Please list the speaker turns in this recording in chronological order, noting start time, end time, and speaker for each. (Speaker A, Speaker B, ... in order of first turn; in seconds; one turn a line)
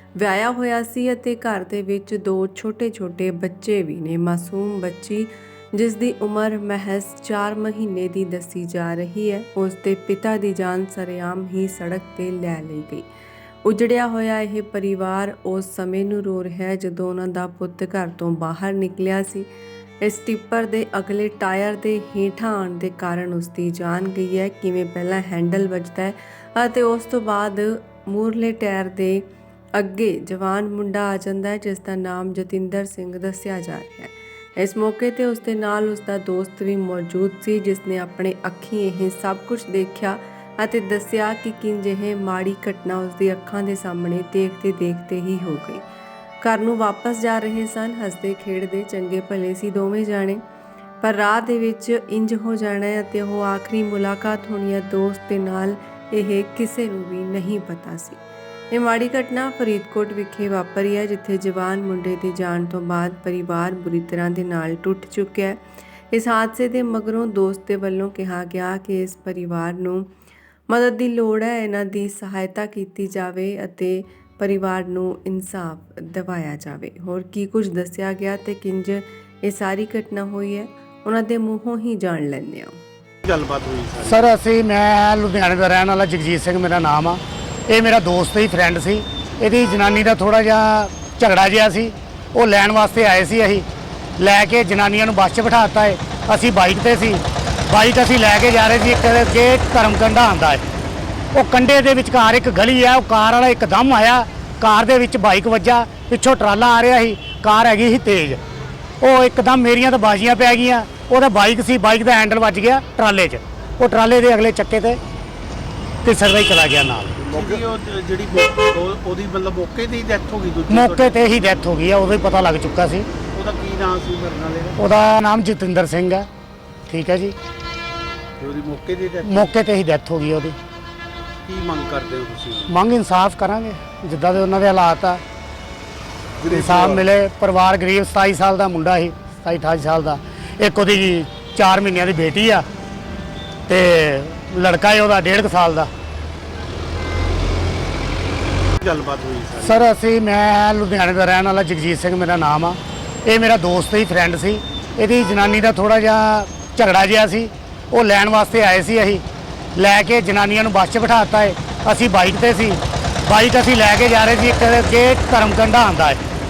Speaker A: 0.2-13.1
Speaker A: 13.6-19.5
Speaker A: 20.0-45.8
Speaker A: 46.4-50.4
Speaker A: 51.0-70.1
Speaker A: 70.7-82.8
Speaker B: 83.2-84.2
Speaker C: 84.0-93.6
Speaker C: 94.2-100.6
Speaker C: 101.3-108.4
Speaker C: 109.0-115.0
Speaker C: 116.0-117.2
Speaker B: 117.2-121.2
Speaker C: 120.7-123.1
Speaker B: 123.3-124.8
Speaker C: 124.8-126.3
Speaker C: 126.9-127.3
Speaker B: 128.4-129.5
Speaker C: 129.2-130.6
Speaker B: 131.4-132.8
Speaker C: 132.7-135.2
Speaker B: 136.4-137.1
Speaker C: 136.5-142.6
Speaker C: 143.7-145.9
Speaker B: 148.8-149.9
Speaker C: 149.6-159.2
Speaker C: 159.8-166.2